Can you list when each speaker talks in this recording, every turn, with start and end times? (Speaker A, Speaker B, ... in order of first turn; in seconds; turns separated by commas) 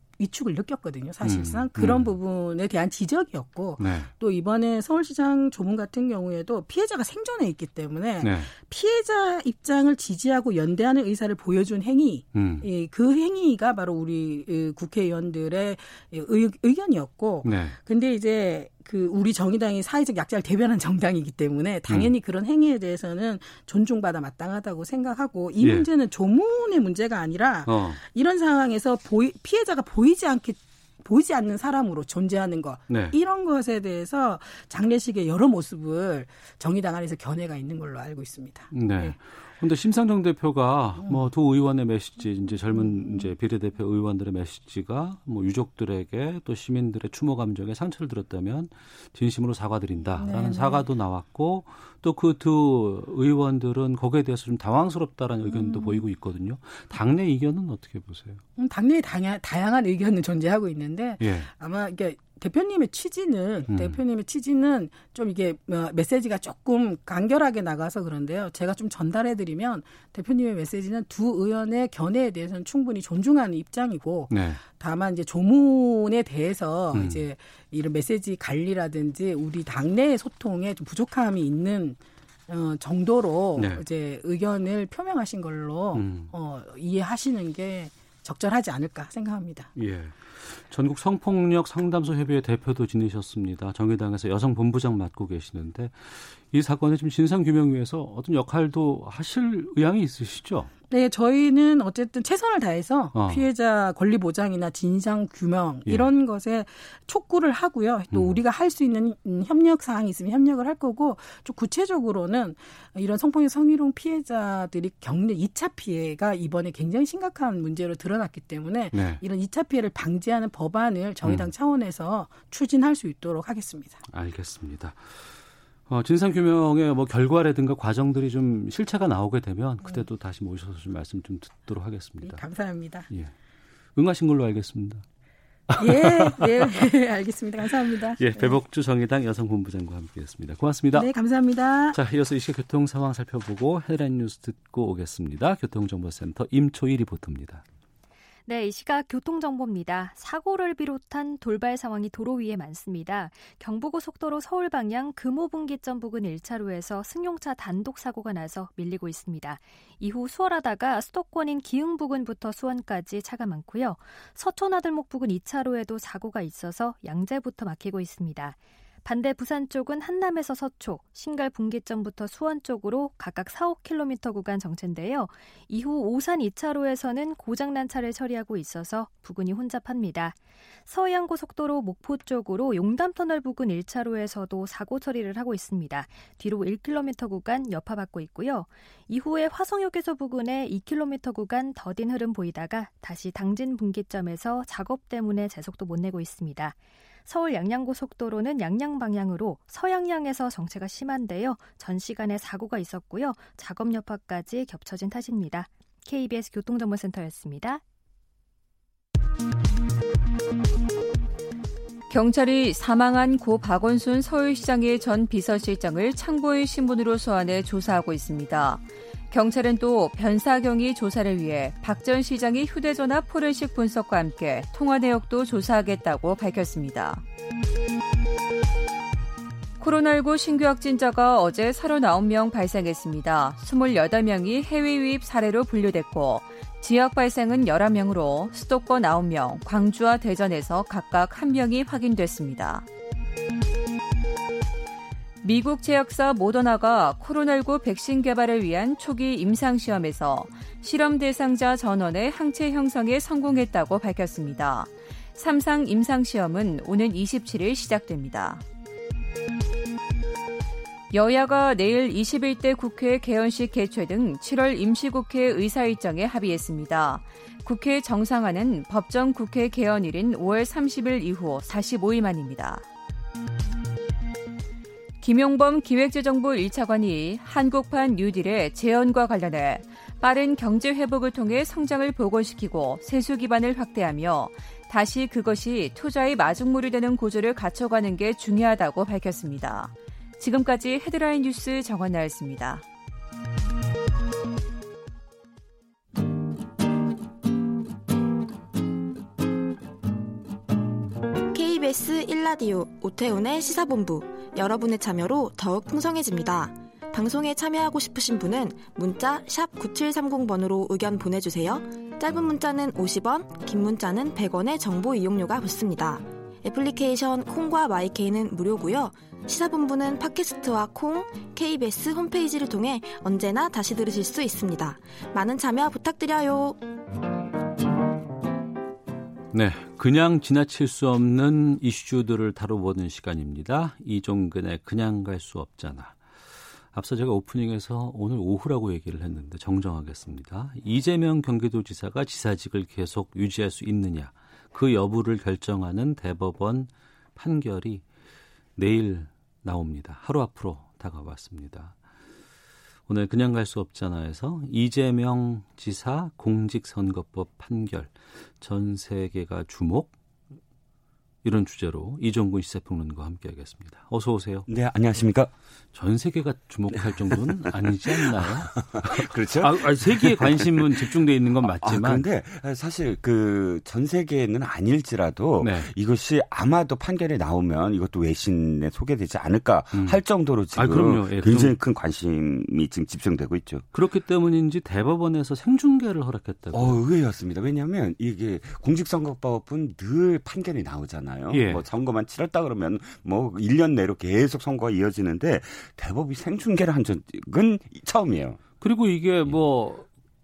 Speaker A: 0.2-39.1, Speaker B: 1.2-2.1, Speaker B: 3.8-4.1, Speaker B: 8.2-8.5, Speaker B: 12.3-12.7, Speaker B: 17.4-17.8, Speaker B: 25.6-25.9, Speaker B: 27.6-28.0, Speaker B: 32.9-33.1, Speaker B: 38.7-58.4, Speaker A: 41.0-41.2, Speaker A: 42.8-43.2, Speaker A: 50.2-50.9, Speaker A: 55.5-56.0, Speaker A: 58.6-89.7, Speaker B: 61.2-61.5, Speaker B: 63.7-64.0, Speaker B: 74.3-74.6, Speaker B: 76.9-77.2, Speaker B: 83.6-83.8, Speaker B: 85.9-86.3, Speaker B: 89.8-100.7, Speaker A: 100.9-124.0, Speaker B: 103.1-103.5, Speaker B: 108.1-108.4, Speaker B: 118.9-119.2, Speaker B: 124.1-125.2, Speaker B: 125.9-132.4, Speaker A: 132.2-133.1, Speaker B: 133.9-135.0, Speaker B: 135.7-136.7, Speaker A: 135.8-138.6, Speaker B: 138.2-141.1, Speaker A: 140.9-142.0, Speaker B: 141.9-147.6, Speaker C: 148.5-207.8, Speaker D: 212.1-227.2, Speaker D: 229.8-242.8, Speaker D: 245.4-258.6, Speaker D: 261.1-272.8, Speaker D: 275.2-292.8, Speaker E: 301.5-326.8, Speaker B: 329.5-336.2, Speaker B: 336.9-348.0, Speaker B: 348.8-351.9, Speaker B: 353.1-360.1, Speaker B: 361.4-364.7, Speaker F: 364.7-365.5, Speaker B: 365.9-372.2, Speaker F: 367.3-371.0, Speaker F: 371.6-383.8, Speaker B: 375.6-375.9, Speaker B: 379.9-380.2, Speaker B: 380.7-381.8, Speaker B: 383.9-387.0, Speaker F: 386.7-398.6, Speaker B: 391.5-391.8, Speaker B: 398.8-400.1